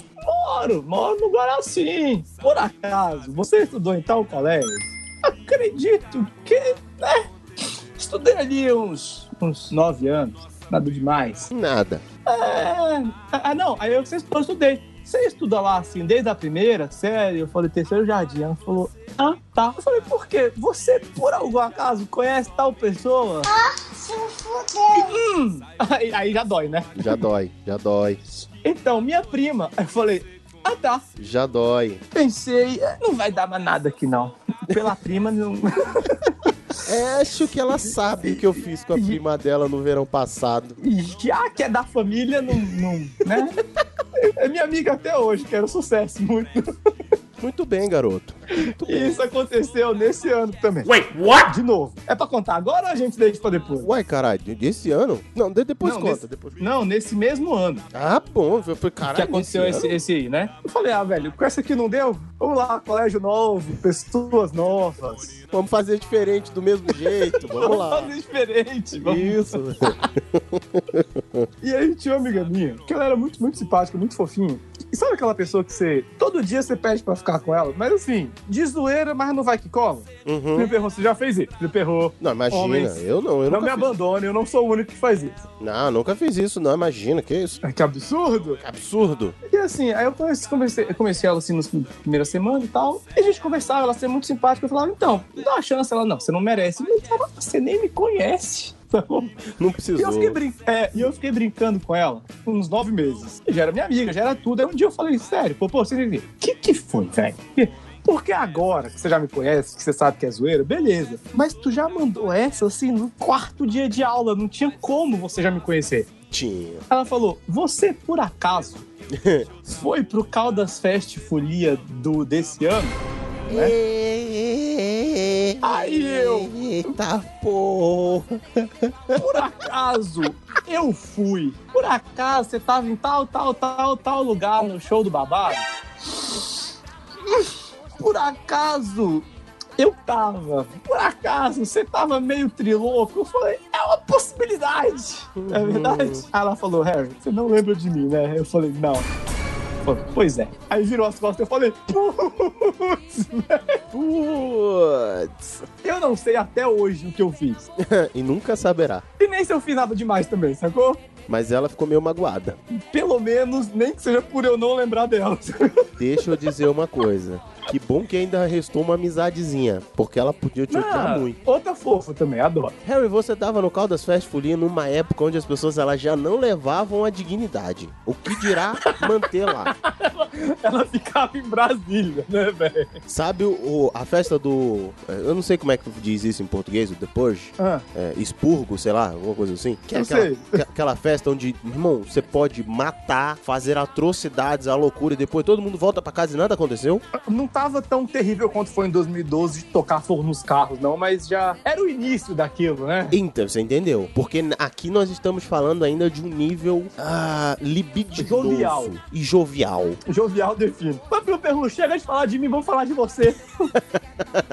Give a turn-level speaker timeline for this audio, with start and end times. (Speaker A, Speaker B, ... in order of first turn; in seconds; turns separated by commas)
Speaker A: 0.2-7.3, Speaker A: 8.0-11.5, Speaker B: 11.5-12.0, Speaker A: 12.2-23.5, Speaker A: 24.9-27.2, Speaker B: 26.9-28.2, Speaker A: 28.6-31.0, Speaker B: 31.2-32.0, Speaker A: 32.1-36.3, Speaker B: 36.8-40.8, Speaker A: 38.9-39.2, Speaker A: 40.8-43.5, Speaker A: 44.2-46.7, Speaker B: 47.4-49.2, Speaker A: 48.8-53.9, Speaker B: 53.8-56.6, Speaker A: 55.8-57.9, Speaker B: 57.9-59.9, Speaker A: 59.0-65.4, Speaker B: 65.5-68.1, Speaker A: 67.3-70.0, Speaker B: 69.0-71.5, Speaker A: 71.6-85.4, Speaker B: 80.2-80.7, Speaker B: 82.2-83.9, Speaker B: 85.6-87.6, Speaker A: 87.6-88.6, Speaker B: 88.6-89.3, Speaker A: 89.4-99.4, Speaker B: 99.6-100.4, Speaker A: 100.0-116.1, Speaker B: 116.3-116.8, Speaker A: 116.9-118.9, Speaker B: 119.1-119.5, Speaker A: 119.7-123.0, Speaker B: 123.5-129.4, Speaker A: 125.6-126.5, Speaker A: 129.1-135.6, Speaker A: 137.3-139.2, Speaker A: 139.8-149.1, Speaker B: 145.3-146.2, Speaker A: 149.8-153.8, Speaker B: 153.9-155.6, Speaker A: 155.8-157.7, Speaker B: 157.8-159.0, Speaker A: 159.2-161.0, Speaker B: 161.3-162.6, Speaker A: 162.7-165.9, Speaker B: 166.0-171.4, Speaker A: 170.7-172.7, Speaker B: 172.8-179.7, Speaker A: 179.6-183.0, Speaker B: 183.1-197.0, Speaker A: 187.6-187.8, Speaker A: 189.9-190.6, Speaker A: 197.2-203.2, Speaker B: 203.1-210.0, Speaker A: 208.2-208.9, Speaker A: 210.1-213.7